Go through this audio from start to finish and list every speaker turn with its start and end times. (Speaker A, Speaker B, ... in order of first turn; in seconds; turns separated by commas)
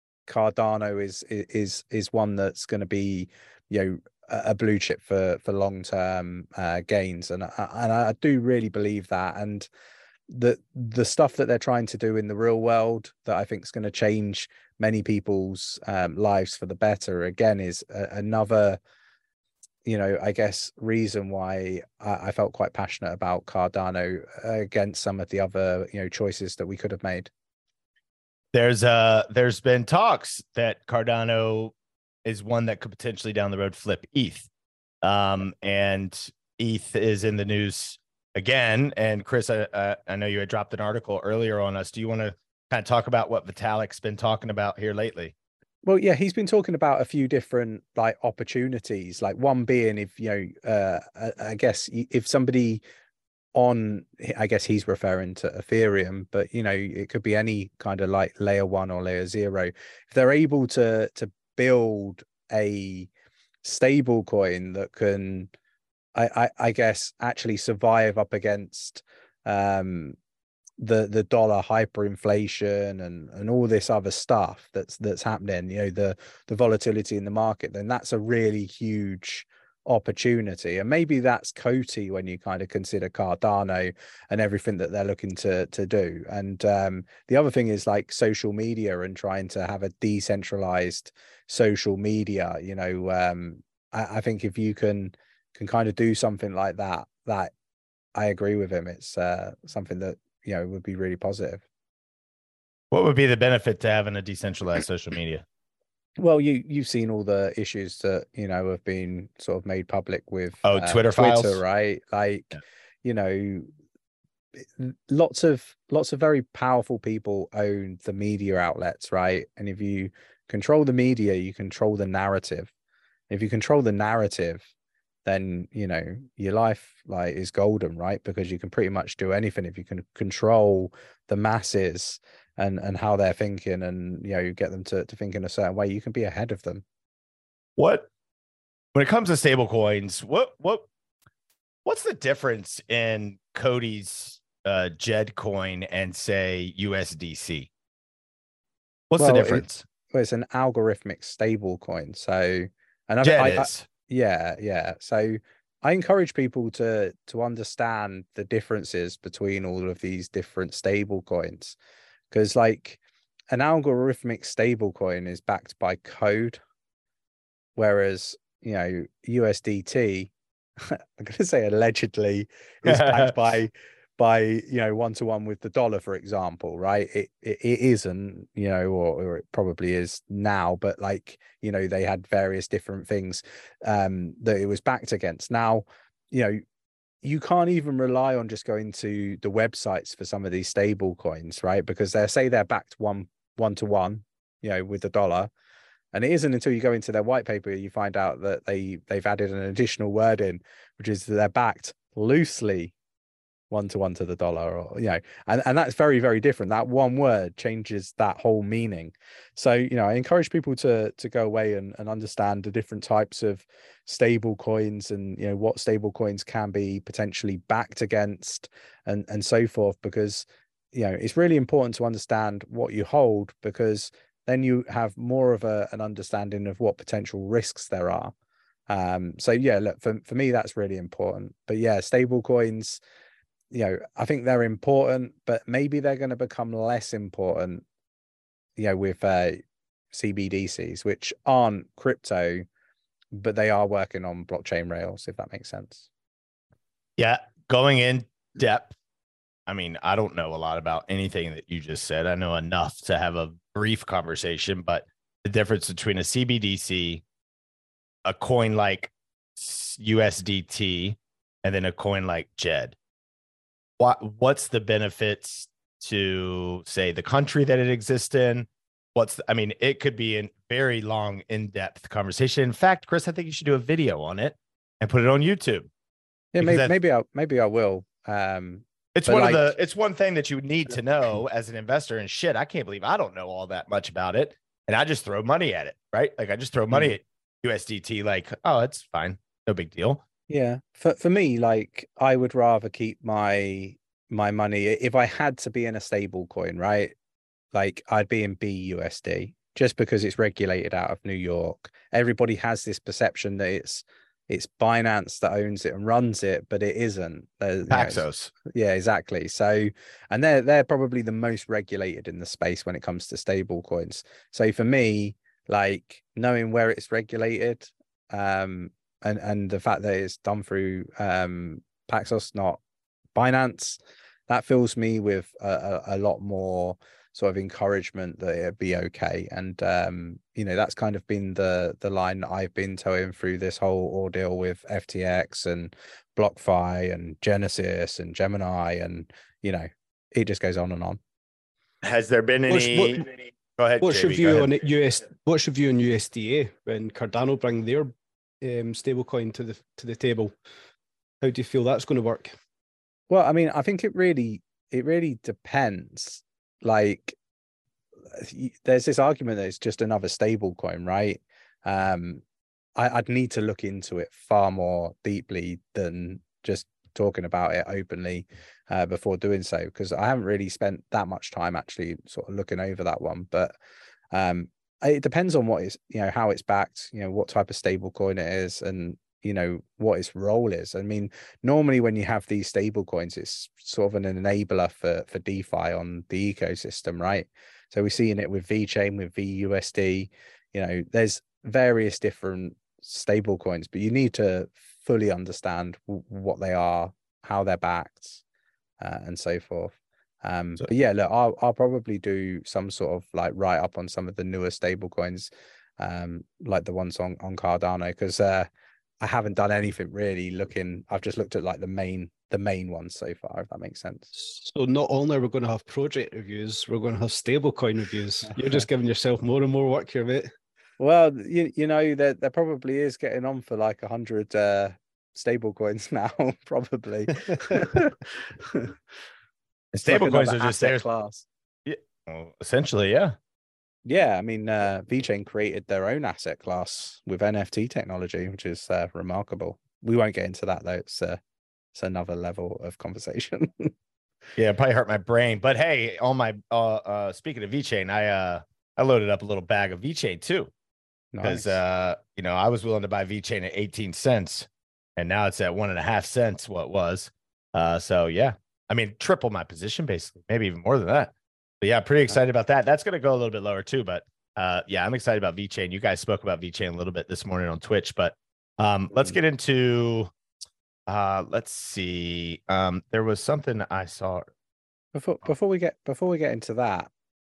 Speaker A: 0.3-9.7, Speaker A: 10.3-18.8, Speaker A: 19.9-27.3, Speaker B: 28.5-31.7, Speaker B: 32.2-34.5, Speaker B: 35.0-45.3, Speaker A: 45.8-52.8, Speaker A: 53.5-63.1, Speaker A: 63.6-65.5, Speaker A: 66.2-70.2, Speaker A: 70.8-97.5, Speaker A: 98.2-101.6, Speaker B: 102.9-105.5, Speaker A: 106.2-113.7, Speaker B: 110.7-111.6, Speaker A: 114.6-122.7, Speaker A: 123.3-124.7, Speaker A: 125.2-136.8, Speaker B: 137.8-138.1, Speaker B: 138.9-140.9, Speaker B: 141.8-147.7, Speaker B: 149.1-149.8, Speaker A: 149.2-161.8, Speaker B: 153.2-153.9, Speaker A: 162.3-163.0, Speaker A: 163.5-166.6, Speaker A: 167.8-186.6, Speaker B: 172.8-173.6, Speaker A: 187.2-195.5, Speaker A: 196.1-202.9, Speaker A: 203.7-228.3, Speaker A: 228.9-233.0, Speaker A: 233.7-237.8, Speaker A: 238.8-242.7, Speaker A: 243.3-246.1, Speaker B: 247.2-248.9, Speaker B: 249.7-257.2, Speaker B: 258.2-263.0, Speaker B: 264.0-275.9, Speaker A: 276.5-279.8, Speaker B: 276.6-276.9, Speaker B: 279.1-290.2, Speaker A: 290.5-297.1, Speaker A: 297.7-322.8, Speaker B: 307.9-308.5, Speaker A: 323.4-341.2, Speaker B: 342.0-343.3, Speaker C: 342.7-343.3, Speaker B: 343.8-344.7, Speaker C: 344.0-350.5, Speaker C: 351.4-352.5, Speaker A: 353.3-357.4, Speaker A: 358.3-362.4, Speaker A: 363.0-373.8, Speaker A: 374.3-398.4, Speaker A: 399.0-408.7, Speaker A: 409.2-414.3, Speaker C: 414.4-420.5, Speaker A: 421.0-428.2, Speaker B: 429.9-431.0, Speaker A: 430.1-431.4, Speaker B: 431.9-433.4, Speaker A: 434.1-441.4, Speaker A: 441.9-443.9, Speaker B: 444.6-450.7, Speaker A: 451.3-451.7, Speaker B: 451.4-470.3, Speaker B: 471.1-474.5, Speaker A: 475.1-477.1